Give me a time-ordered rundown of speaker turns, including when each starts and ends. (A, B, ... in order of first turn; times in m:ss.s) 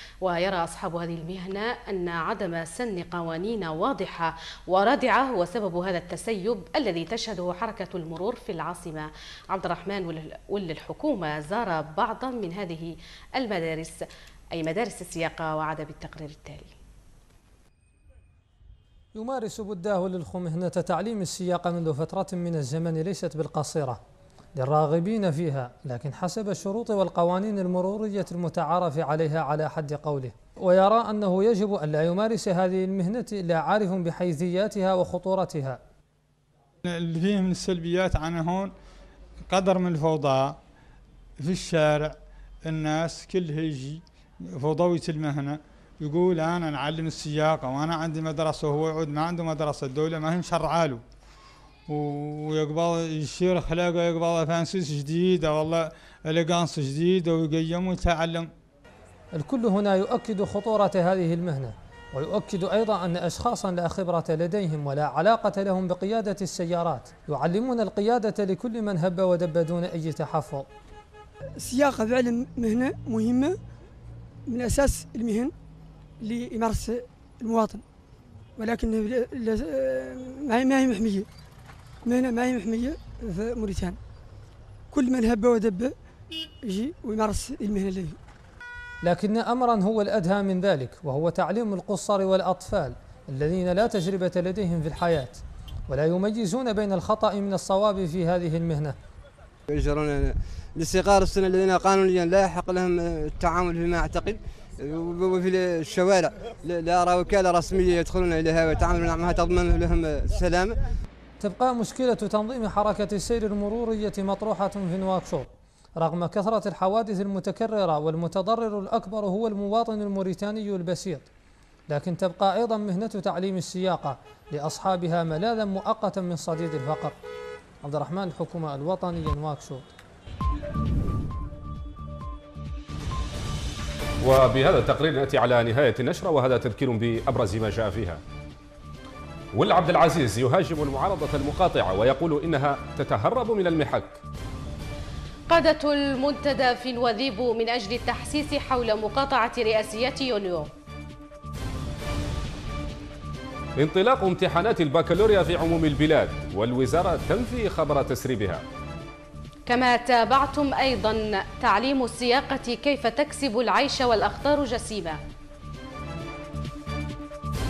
0:00.2-0:14.0 A
0:14.6-0:16.8 A
0:19.2-0:24.0 B
0:24.6-0:35.8 B
0:36.8-0:38.7 C
0:39.5-0:40.6 C
0:41.4-0:44.0 C
0:44.5-0:51.0 C
0:51.9-0:58.5 C
0:59.4-1:10.7 B
1:11.6-1:13.6 D
1:14.5-1:15.5 D
1:16.2-1:17.8 D
1:18.6-1:21.3 D
1:22.0-1:24.0 D
1:24.9-1:26.0 D
1:26.6-1:28.2 D
1:29.0-1:39.0 B
1:39.7-1:50.8 E
1:51.4-1:55.5 B
1:56.0-2:01.3 B
2:01.9-2:07.1 B
2:07.8-2:09.9 B
2:14.2-2:18.2 F
2:19.6-2:24.2 F
2:25.5-2:30.7 A
2:33.8-2:38.6 F
2:39.7-2:45.2 A